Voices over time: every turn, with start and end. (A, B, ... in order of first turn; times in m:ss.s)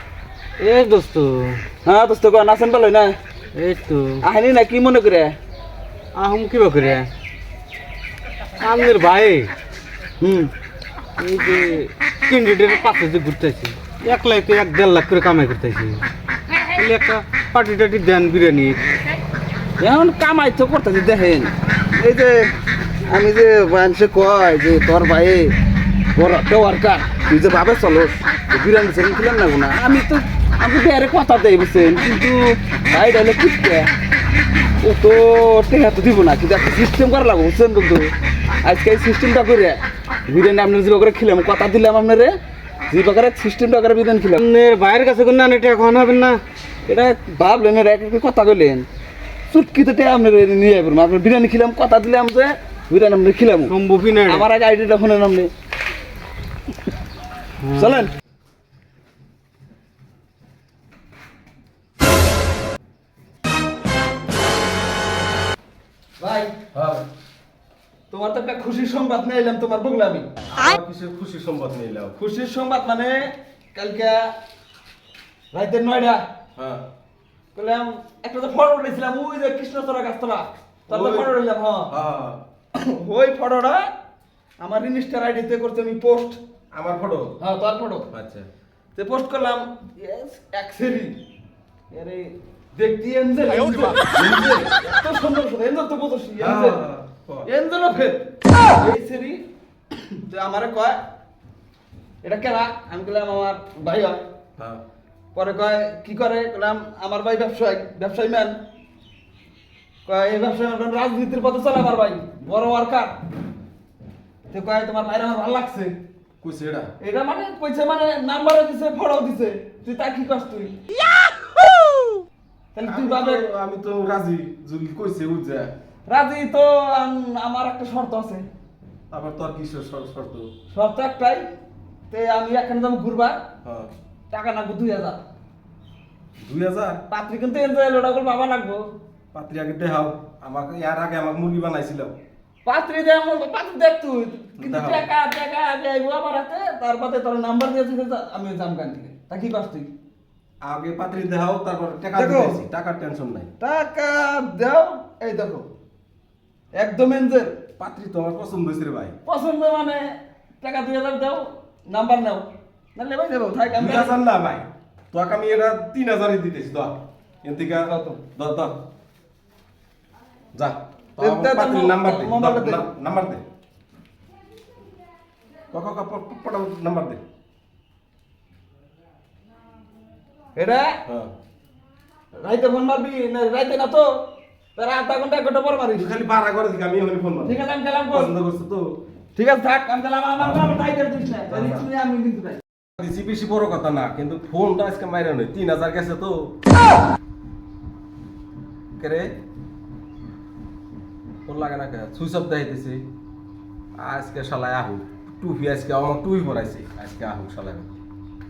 0:00.6-0:01.6 A
0:01.8-0:03.1 B
0:03.5-0:04.2 A
0:04.2-0:05.3 B
0:06.1-0:07.1 A
0:08.6-0:09.5 A
0:10.2-0:10.5 B
0:11.2-0:16.0 A
0:16.7-0:18.8 A
0:19.8-0:22.5 B
0:23.1-0:25.5 B
0:26.1-0:33.9 B
0:34.8-0:42.3 B
0:42.9-0:44.4 B
0:44.4-0:46.4 A
0:46.9-0:48.9 B
0:49.5-0:53.7 B
0:53.7-0:54.4 A
0:54.2-0:55.5 B
0:57.6-0:58.0 A
0:57.7-0:58.1 B
1:06.2-1:06.7 B
1:06.7-1:07.0 C
1:08.1-1:10.3 B
1:10.5-1:12.2 C
1:12.2-1:14.3 B
1:15.5-1:16.2 B
1:16.6-1:16.8 C
1:17.5-1:21.9 B
1:20.9-1:21.3 C
1:21.9-1:22.4 C
1:22.7-1:23.9 B
1:24.6-1:26.4 B
1:26.7-1:27.4 C
1:27.4-1:28.1 B
1:28.1-1:28.5 C
1:28.9-1:31.2 B
1:31.9-1:36.8 B
1:34.1-1:34.7 C
1:36.4-1:37.5 C
1:37.4-1:41.0 B
1:42.2-1:44.2 B
1:44.6-1:44.8 C
1:45.3-1:48.6 B
1:50.0-1:53.2 B
1:54.5-1:55.9 B
1:56.4-1:56.9 C
1:57.0-2:00.8 B
2:02.7-2:03.5 B
2:02.8-2:05.7 C
2:06.1-2:08.4 B
2:09.1-2:10.5 C
2:10.7-2:11.5 B
2:12.1-2:13.4 B
2:13.6-2:13.9 C
2:14.3-2:15.2 B
2:16.4-2:17.0 C
2:17.1-2:18.8 B
2:19.3-2:22.1 C
2:22.6-2:29.9 B
2:24.6-2:25.1 C
2:30.6-2:33.5 C
2:32.1-2:32.6 B
2:33.6-2:35.7 B
2:36.7-2:37.5 B
2:37.8-2:39.2 C
2:39.2-2:44.2 B
2:43.7-2:48.8 C
2:47.8-2:48.2 B
2:50.5-2:53.4 C
2:51.2-2:52.8 B
2:55.7-2:57.2 C
3:00.6-3:01.0 B
3:01.0-3:01.3 C
3:02.4-3:04.1 B
3:04.8-3:06.1 B
3:05.9-3:07.6 C
3:07.4-3:08.3 B
3:08.1-3:08.8 C
3:09.3-3:12.6 B
3:11.5-3:11.9 C
3:13.0-3:16.6 C
3:19.0-3:19.4 C
3:21.4-3:23.0 C
3:24.0-3:27.9 C